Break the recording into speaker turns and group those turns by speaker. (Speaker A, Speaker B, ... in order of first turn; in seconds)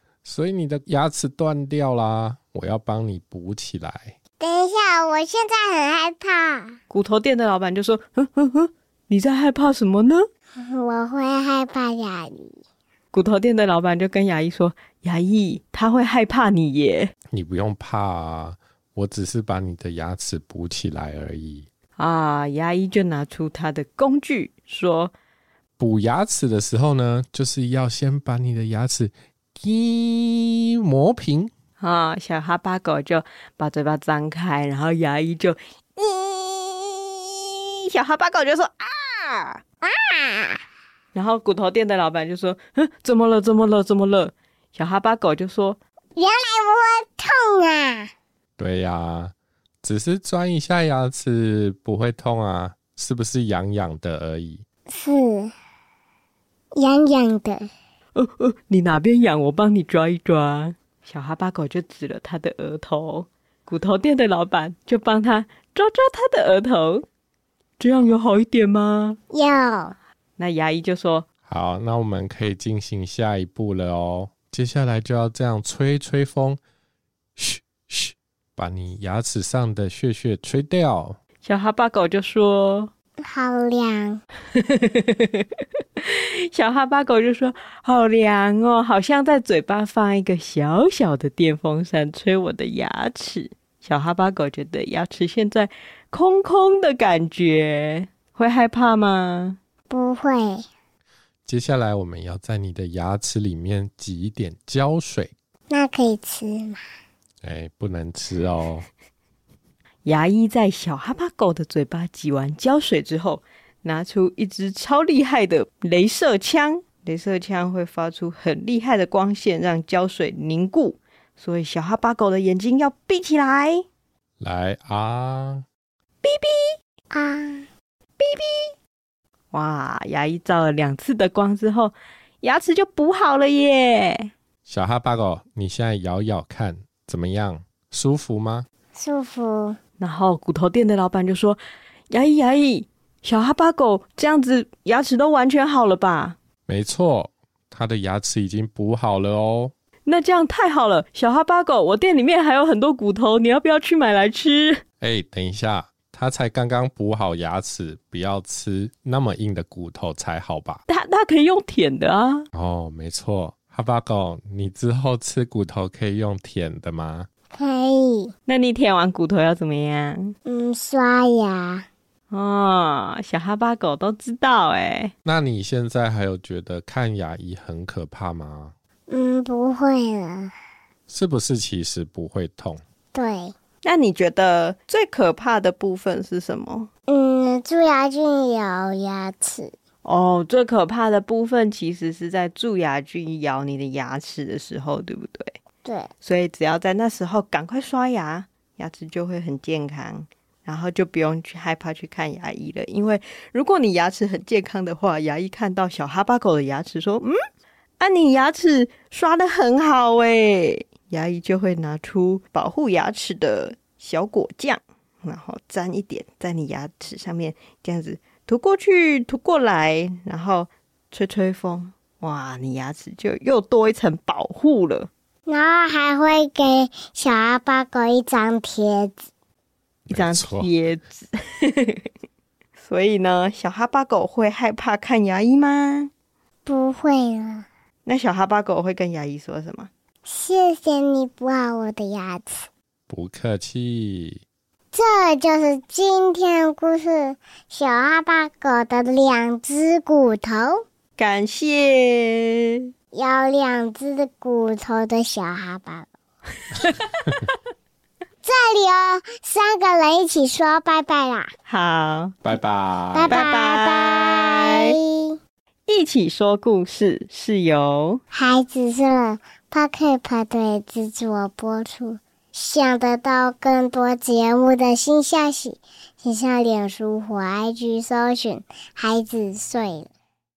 Speaker A: 0.2-4.2, 17.3-21.7, 25.8-31.5, 48.6-54.6, 71.5-76.6, 77.4-81.2, 101.5-105.3, 107.4-108.8, 124.4-125.7, 134.7-138.7, 146.7-149.7, 155.0-160.8, 162.5-167.3, 175.2-178.7, 181.1-182.8, 230.1-230.7, 243.1-244.4, 262.4-263.4
Speaker B: 4.4-6.8, 10.6-12.5, 39.8-40.6, 46.2-48.1, 54.9-55.5, 56.7-57.7, 69.3-69.9, 83.2-84.2, 99.9-100.6, 105.7-106.8, 127.1-127.7, 138.9-139.8, 167.5-168.3, 170.5-171.8, 179.1-180.5, 183.1-183.5, 187.1-189.7, 195.8-196.1, 225.5-229.2, 236.7-237.7, 240.3-242.7, 244.9-250.8, 253.1-256.1, 258.4-261.5, 263.1-265.4, 268.3-280.1
Speaker C: 6.9-10.2, 13.1-17.1, 22.0-25.1, 31.8-39.6, 41.1-45.8, 58.1-67.1, 67.8-69.2, 70.4-71.3, 81.4-82.9, 84.6-85.5, 86.0-99.6, 110.0-123.8, 126.2-126.8, 128.2-128.7, 129.5-134.3, 140.0-141.6, 142.1-146.3, 150.1-154.8, 160.9-162.4, 168.5-170.3, 172.3-175.1, 183.8-186.9, 190.0-195.5, 196.2-207.4, 208.0-225.1, 230.1-232.0, 232.8-236.1, 238.1-239.9, 251.2-252.7, 261.7-262.4, 263.3-264.9, 265.9-268.2